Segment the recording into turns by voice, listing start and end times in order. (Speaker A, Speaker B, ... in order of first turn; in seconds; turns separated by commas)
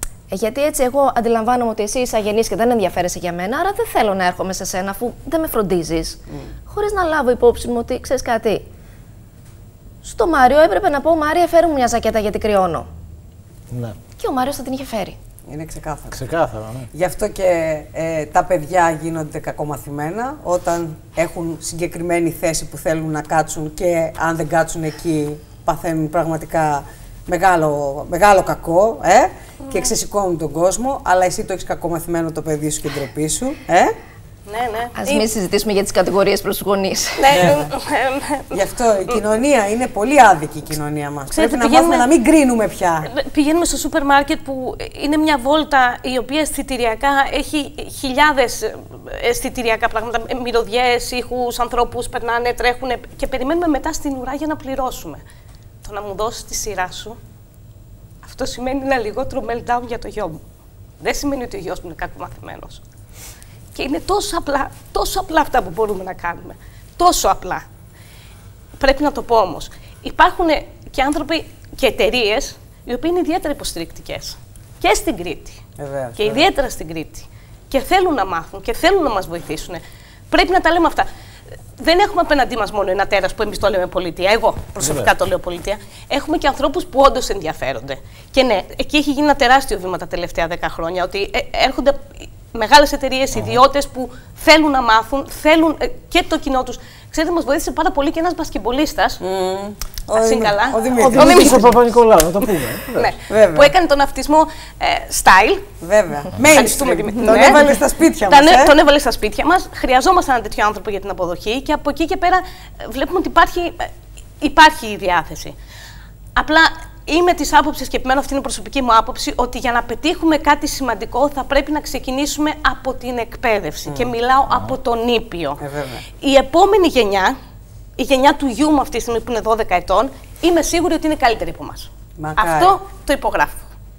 Speaker A: 0.3-8.7, Speaker A: 10.0-12.9, Speaker B: 13.7-14.0, Speaker A: 14.2-15.2, Speaker C: 15.5-16.2, Speaker B: 16.1-16.9, Speaker C: 16.9-34.0, Speaker D: 34.5-35.3, Speaker A: 35.0-37.6, Speaker D: 37.2-38.6, Speaker C: 37.3-37.7, Speaker C: 38.5-43.1, Speaker D: 41.3-42.1, Speaker D: 43.1-55.2, Speaker D: 55.8-57.2, Speaker D: 58.2-60.4, Speaker D: 61.0-62.8, Speaker D: 63.7-67.7, Speaker D: 68.8-75.6, Speaker C: 75.8-76.5, Speaker D: 76.2-81.1, Speaker D: 81.8-99.2, Speaker B: 84.8-85.1, Speaker C: 99.2-101.7, Speaker D: 100.1-101.7, Speaker B: 100.9-103.2, Speaker D: 103.0-105.7, Speaker C: 103.3-103.7, Speaker C: 105.8-108.8, Speaker D: 106.4-115.5, Speaker D: 116.4-125.6, Speaker C: 123.9-124.1, Speaker C: 125.6-126.1, Speaker D: 126.2-127.3, Speaker D: 128.0-133.7, Speaker C: 132.2-132.8